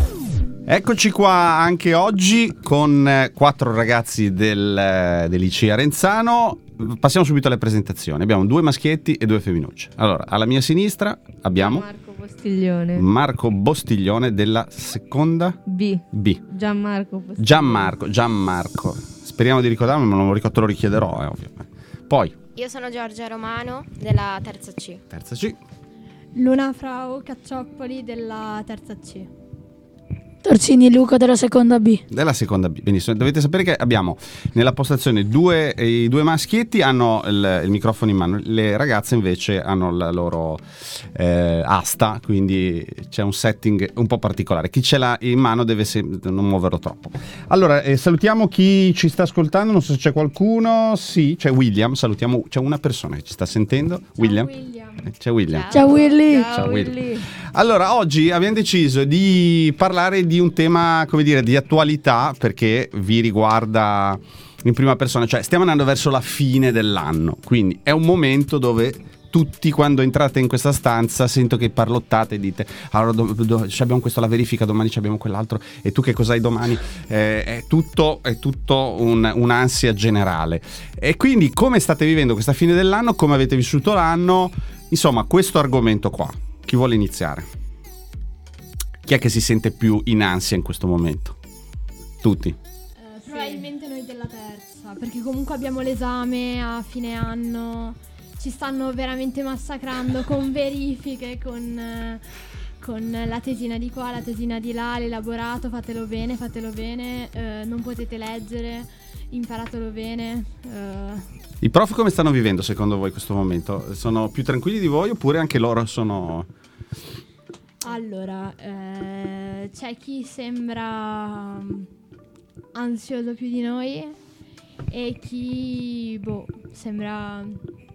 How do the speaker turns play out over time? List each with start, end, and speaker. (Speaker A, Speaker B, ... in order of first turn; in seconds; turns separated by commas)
Speaker A: 0.7-11.9, Speaker B: 11.6-13.1, Speaker A: 12.9-15.6, Speaker B: 15.7-17.9, Speaker A: 16.1-16.4, Speaker A: 17.4-22.4, Speaker C: 22.6-25.0, Speaker A: 25.1-25.6, Speaker D: 26.3-29.3, Speaker E: 30.4-32.0, Speaker A: 32.1-54.5, Speaker D: 54.2-55.1, Speaker A: 55.0-55.8, Speaker C: 55.5-56.1, Speaker E: 55.7-56.6, Speaker B: 56.0-57.3, Speaker A: 56.5-87.5, Speaker A: 89.0-91.4, Speaker A: 92.2-92.6, Speaker D: 93.0-102.2, Speaker D: 102.8-111.4, Speaker A: 111.6-116.5, Speaker D: 117.8-121.9, Speaker D: 122.7-124.2, Speaker D: 124.9-127.6